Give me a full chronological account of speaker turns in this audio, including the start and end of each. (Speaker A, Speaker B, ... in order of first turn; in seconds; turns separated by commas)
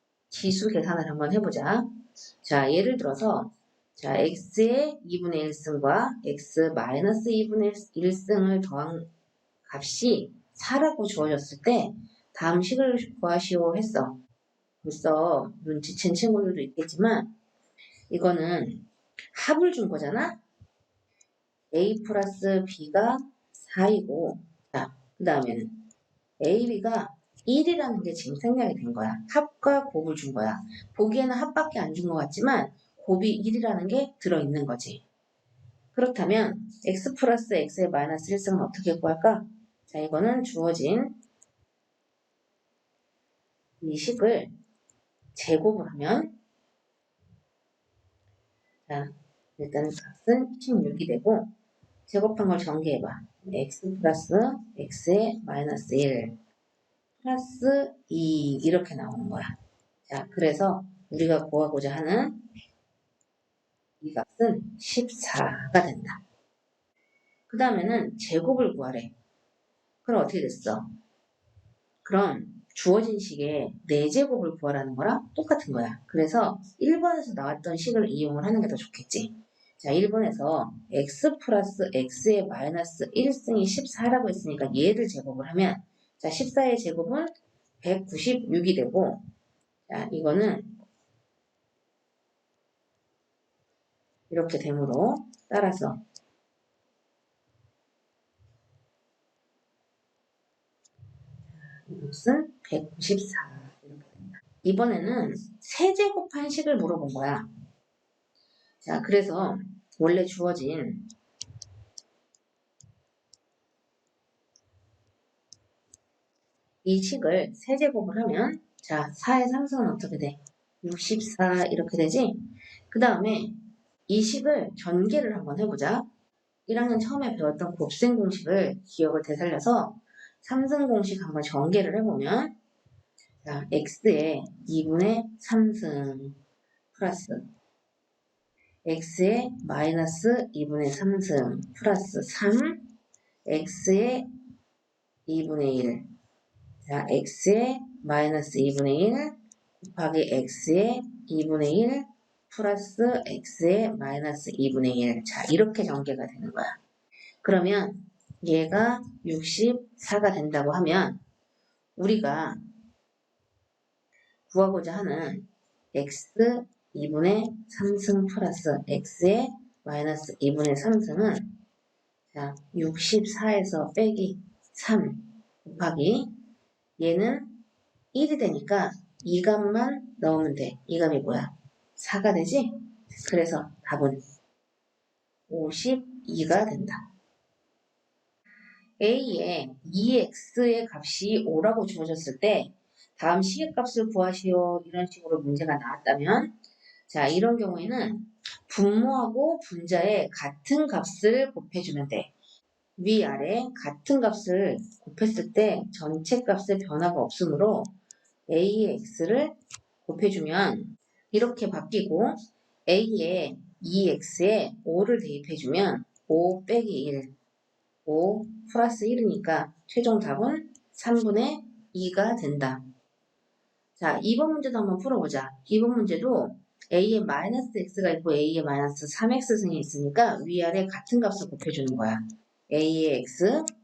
Speaker A: 0.3-1.9, Speaker A: 2.4-9.1, Speaker A: 9.7-14.2, Speaker A: 14.8-17.3, Speaker A: 18.1-20.4, Speaker A: 21.7-25.9, Speaker A: 26.4-35.0, Speaker A: 35.9-41.2, Speaker A: 43.8-44.5, Speaker A: 45.3-46.4, Speaker A: 48.9-51.5, Speaker A: 52.1-56.4, Speaker A: 57.2-59.5, Speaker A: 60.1-62.4, Speaker A: 64.0-66.2, Speaker A: 67.5-69.1, Speaker A: 70.0-70.9, Speaker A: 72.0-89.2, Speaker A: 89.9-90.8, Speaker A: 94.3-96.0, Speaker A: 101.6-107.5, Speaker A: 108.8-111.1, Speaker A: 116.8-122.4, Speaker A: 122.9-123.6, Speaker A: 124.1-126.1, Speaker A: 126.7-132.6, Speaker A: 133.4-136.4, Speaker A: 136.9-137.4, Speaker A: 138.8-142.9, Speaker A: 143.4-144.2, Speaker A: 145.3-146.0, Speaker A: 146.8-156.8, Speaker A: 157.4-161.2, Speaker A: 161.9-162.6, Speaker A: 164.5-171.6, Speaker A: 172.3-176.3, Speaker A: 177.0-177.6, Speaker A: 178.1-184.2, Speaker A: 185.5-187.1, Speaker A: 189.0-196.5, Speaker A: 197.1-202.3, Speaker A: 203.0-207.9, Speaker A: 208.5-209.5, Speaker A: 210.0-212.3, Speaker A: 212.9-217.3, Speaker A: 218.1-222.8, Speaker A: 224.0-233.7